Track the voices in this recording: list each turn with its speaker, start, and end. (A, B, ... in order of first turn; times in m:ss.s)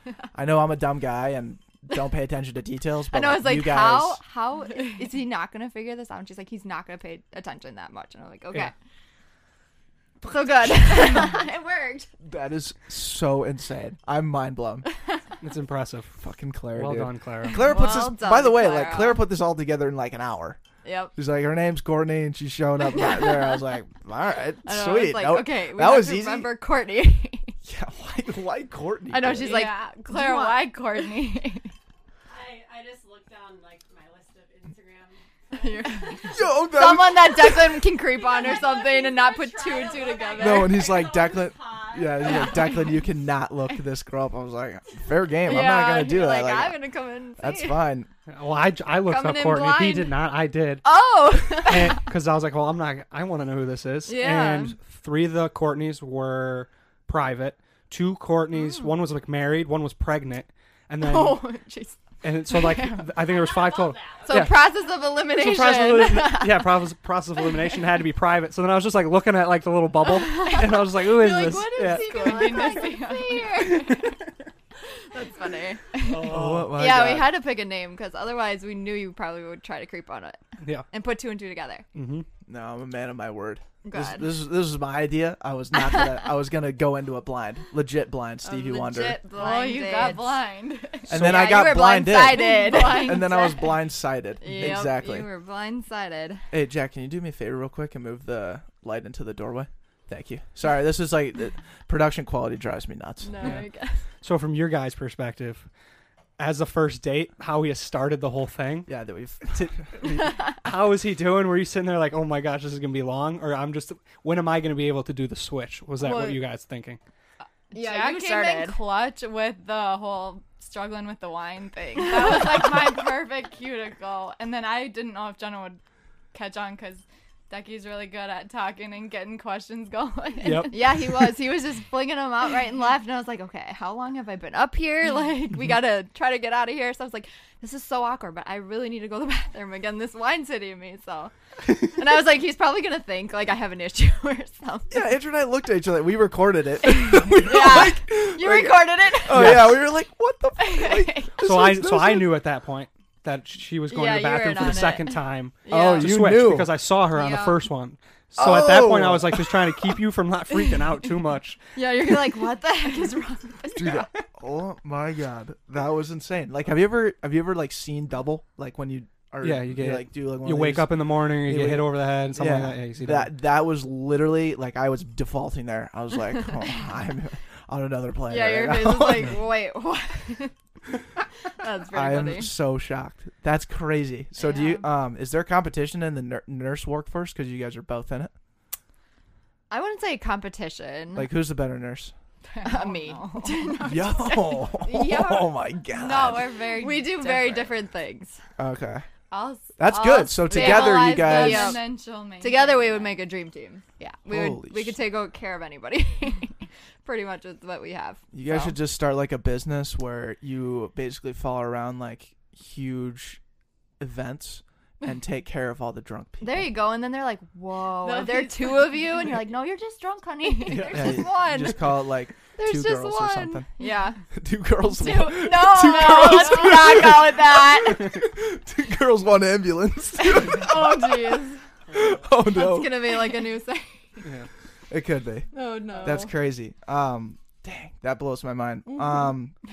0:00.3-0:04.2 A
0:03.1-0:08.7 B
0:10.2-0:12.1 B
0:12.2-0:14.9 A
0:15.4-0:16.2 C
0:16.2-0:20.6 A
0:16.7-0:17.7 C
0:17.5-0:19.2 B
0:20.8-0:21.1 B
0:21.2-0:26.5 A
0:22.9-0:23.6 B
0:24.6-0:27.6 B
0:27.6-0:29.6 A
0:29.1-0:31.1 B
0:29.4-0:31.7 D
0:32.3-0:36.3 E
0:35.6-0:40.7 B
0:35.9-0:36.3 D
0:36.3-0:37.8 A
0:38.1-0:42.8 E
0:39.6-0:40.8 D
0:40.4-0:46.8 A
0:45.4-0:47.8 B
0:47.4-0:48.1 A
0:48.3-0:50.9 C
0:49.0-0:50.2 B
0:50.8-0:52.0 B
0:51.5-1:01.5 C
0:54.0-0:54.8 B
0:58.6-0:58.9 B
1:01.0-1:02.0 B
1:01.2-1:01.6 D
1:02.2-1:12.5 C
1:02.5-1:03.1 D
1:03.2-1:04.7 E
1:04.3-1:06.7 B
1:10.3-1:14.1 B
1:11.3-1:13.8 D
1:13.5-1:14.2 C
1:15.1-1:21.9 B
1:16.1-1:16.8 C
1:16.2-1:17.3 A
1:20.6-1:20.9 C
1:21.9-1:22.3 C
1:22.5-1:29.2 A
1:23.8-1:24.4 B
1:25.8-1:26.3 B
1:28.4-1:30.4 B
1:29.3-1:31.3 D
1:31.1-1:35.3 A
1:31.1-1:33.8 B
1:32.4-1:33.8 D
1:34.4-1:36.4 B
1:34.6-1:34.9 C
1:36.5-1:43.5 A
1:43.2-1:44.0 B
1:43.4-1:43.7 C
1:44.2-1:45.7 C
1:46.4-1:48.9 C
1:48.9-1:49.9 A
1:50.0-1:57.0 C
1:56.0-1:56.4 B
1:57.7-1:58.9 B
1:57.7-2:05.8 D
2:02.2-2:02.6 B
2:06.3-2:11.0 D
2:10.4-2:11.2 C
2:10.7-2:25.0 B
2:24.9-2:32.4 A
2:27.1-2:29.7 B
2:29.3-2:29.8 C
2:30.6-2:31.4 D
2:31.4-2:41.6 C
2:33.9-2:36.1 B
2:35.7-2:36.8 A
2:37.1-2:37.7 B
2:38.4-2:39.9 A
2:41.8-2:44.1 B
2:43.8-2:59.4 A
2:49.4-2:53.3 C
2:58.3-3:00.5 B
3:01.5-3:02.5 B
3:01.9-3:08.3 A
3:04.4-3:04.8 B
3:09.7-3:11.3 B
3:11.2-3:12.1 A
3:12.5-3:17.8 D
3:12.6-3:15.5 B
3:13.8-3:16.5 A
3:16.8-3:18.4 B
3:18.6-3:19.1 A
3:19.3-3:23.3 D
3:19.8-3:21.8 A
3:20.1-3:28.8 B
3:24.0-3:24.2 D
3:24.2-3:25.0 A
3:28.3-3:33.4 A
3:34.0-3:36.7 A
3:36.4-3:42.0 B
3:38.0-3:39.1 D
3:40.7-3:41.0 C
3:40.7-3:41.3 D
3:40.7-3:43.7 A
3:42.6-3:44.2 B
3:43.8-3:44.1 D
3:44.3-3:51.4 A
3:44.9-3:48.2 B
3:45.8-3:46.7 D
3:50.4-3:51.6 D
3:51.9-3:53.2 A
3:52.4-3:54.2 B
3:54.9-3:59.6 A
3:55.5-3:56.4 D
3:55.5-3:56.3 B